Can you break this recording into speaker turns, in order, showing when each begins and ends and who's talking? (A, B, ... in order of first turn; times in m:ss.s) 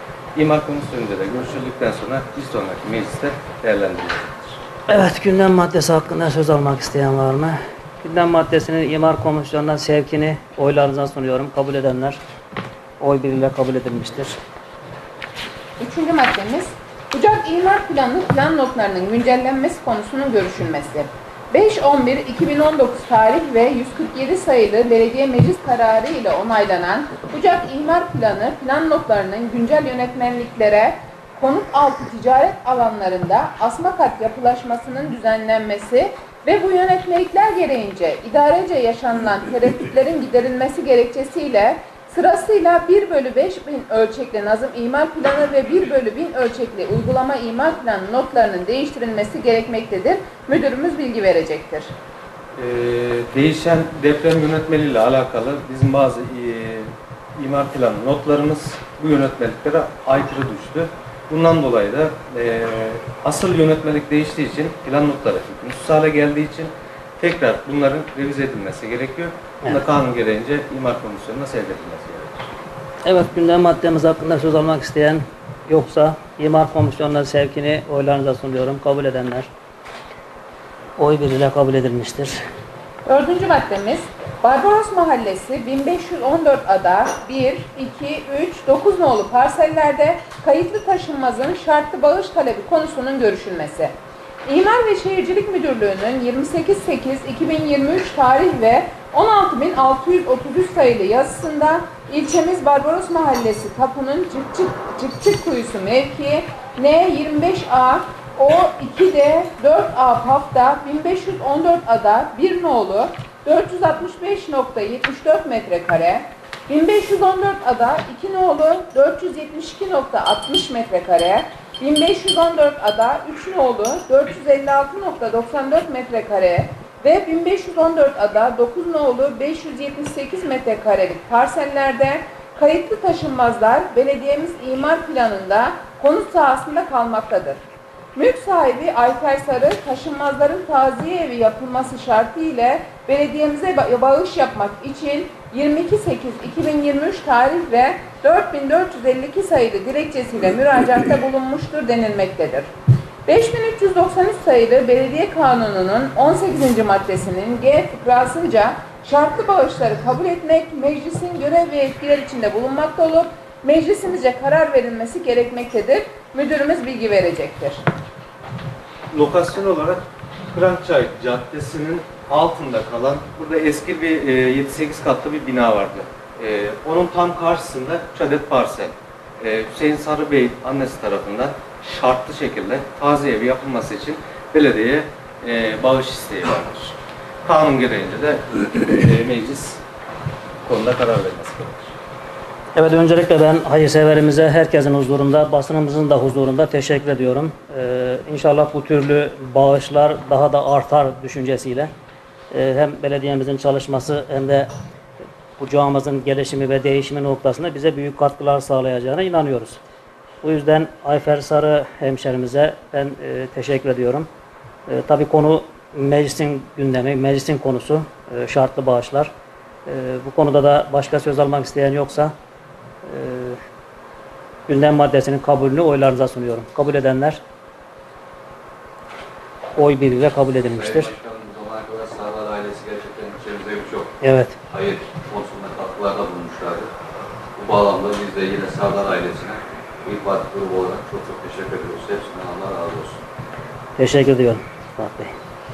0:00.3-0:04.6 A
0:04.9-0:12.2 B
0:13.0-0:14.4 B
0:15.8-0:51.9 C
0:52.6-1:12.5 A
1:13.0-1:19.5 B
1:21.0-1:22.4 B
1:23.0-1:33.9 C
1:34.4-2:17.6 C
2:18.1-2:32.7 C
2:33.3-2:47.8 C
2:49.1-3:09.8 A
3:10.6-3:11.9 A
3:12.7-3:21.9 B
3:22.5-3:24.7 B
3:25.6-3:29.8 B
3:30.4-3:34.3 B
3:34.9-3:39.3 B
3:39.9-3:42.3 B
3:43.0-3:43.6 B
3:44.7-3:47.4 B
3:49.8-3:51.1 B
3:50.7-3:54.1 D
3:54.2-3:54.6 B
3:54.7-3:56.9 D
3:57.6-4:03.2 D
4:04.0-4:05.3 B